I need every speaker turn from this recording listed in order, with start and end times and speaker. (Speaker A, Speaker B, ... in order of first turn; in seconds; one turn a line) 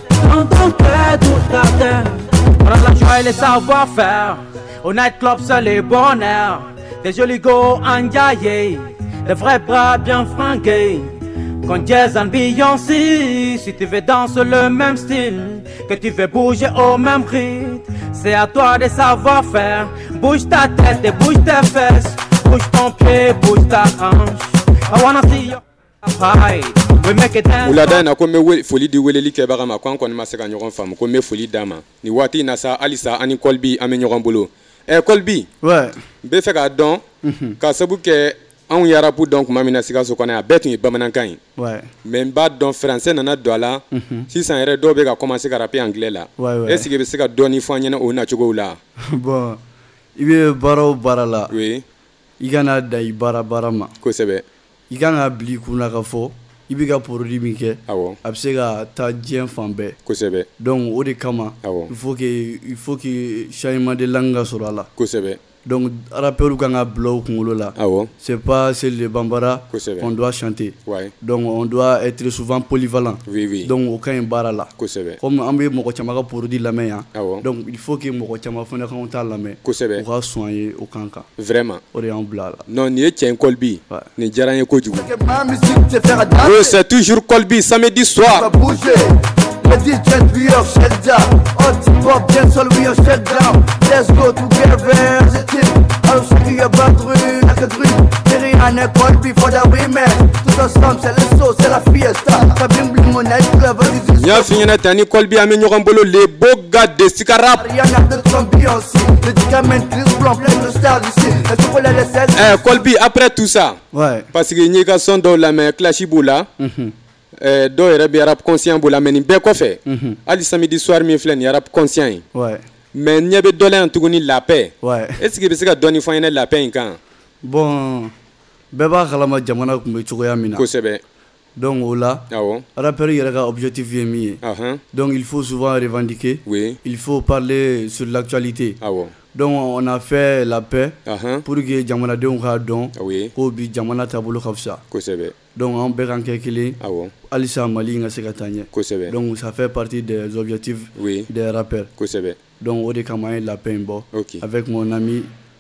Speaker A: 0.2-28.0
Speaker B: 27.6-35.5
Speaker C: 35.6-36.0
Speaker B: 36.2-37.0
Speaker C: 37.2-37.5
Speaker B: 37.6-41.4
Speaker C: 41.6-41.9
Speaker B: 42.0-48.8
Speaker C: 43.9-44.3
Speaker C: 46.4-46.9
Speaker C: 49.1-49.6
Speaker C: 50.2-51.5
Speaker B: 51.5-51.9
Speaker C: 52.4-53.9
Speaker B: 54.0-54.5
Speaker C: 54.9-60.0
Speaker B: 57.9-58.2
Speaker B: 60.0-60.5
Speaker C: 60.6-64.9
Speaker B: 61.6-61.9
Speaker B: 65.0-65.4
Speaker C: 65.7-74.7
Speaker B: 67.8-68.1
Speaker B: 69.7-70.1
Speaker B: 70.8-71.1
Speaker B: 73.3-73.7
Speaker B: 74.8-75.2
Speaker C: 75.2-81.2
Speaker B: 77.1-77.4
Speaker B: 79.6-80.0
Speaker B: 81.4-81.8
Speaker C: 81.9-82.6
Speaker B: 82.7-85.1
Speaker D: 84.9-86.8
Speaker B: 86.4-88.5
Speaker D: 88.3-98.5
Speaker C: 98.5-99.3
Speaker D: 99.3-102.8
Speaker C: 102.8-103.6
Speaker D: 103.3-104.4
Speaker B: 104.2-107.7
Speaker D: 107.6-112.6
Speaker B: 112.3-113.8
Speaker C: 113.9-114.3
Speaker B: 114.3-116.5
Speaker C: 116.6-116.9
Speaker B: 117.4-122.2
Speaker C: 119.9-120.2
Speaker C: 122.3-122.6
Speaker B: 122.9-127.0
Speaker C: 124.8-125.2
Speaker C: 127.5-128.1
Speaker C: 128.7-130.6
Speaker B: 130.6-131.0
Speaker C: 131.6-132.2
Speaker B: 132.3-132.7
Speaker C: 132.8-134.4
Speaker B: 134.4-134.8
Speaker C: 134.9-138.8
Speaker B: 136.5-136.8
Speaker B: 138.8-139.2
Speaker C: 139.3-140.9
Speaker B: 141.1-141.5
Speaker C: 141.5-144.8
Speaker B: 142.9-143.3
Speaker B: 144.9-145.4
Speaker C: 145.6-146.8
Speaker B: 146.8-147.1
Speaker C: 147.3-151.9
Speaker B: 148.7-149.2
Speaker B: 151.0-151.3
Speaker B: 152.0-152.4
Speaker C: 152.6-155.3
Speaker B: 154.1-154.4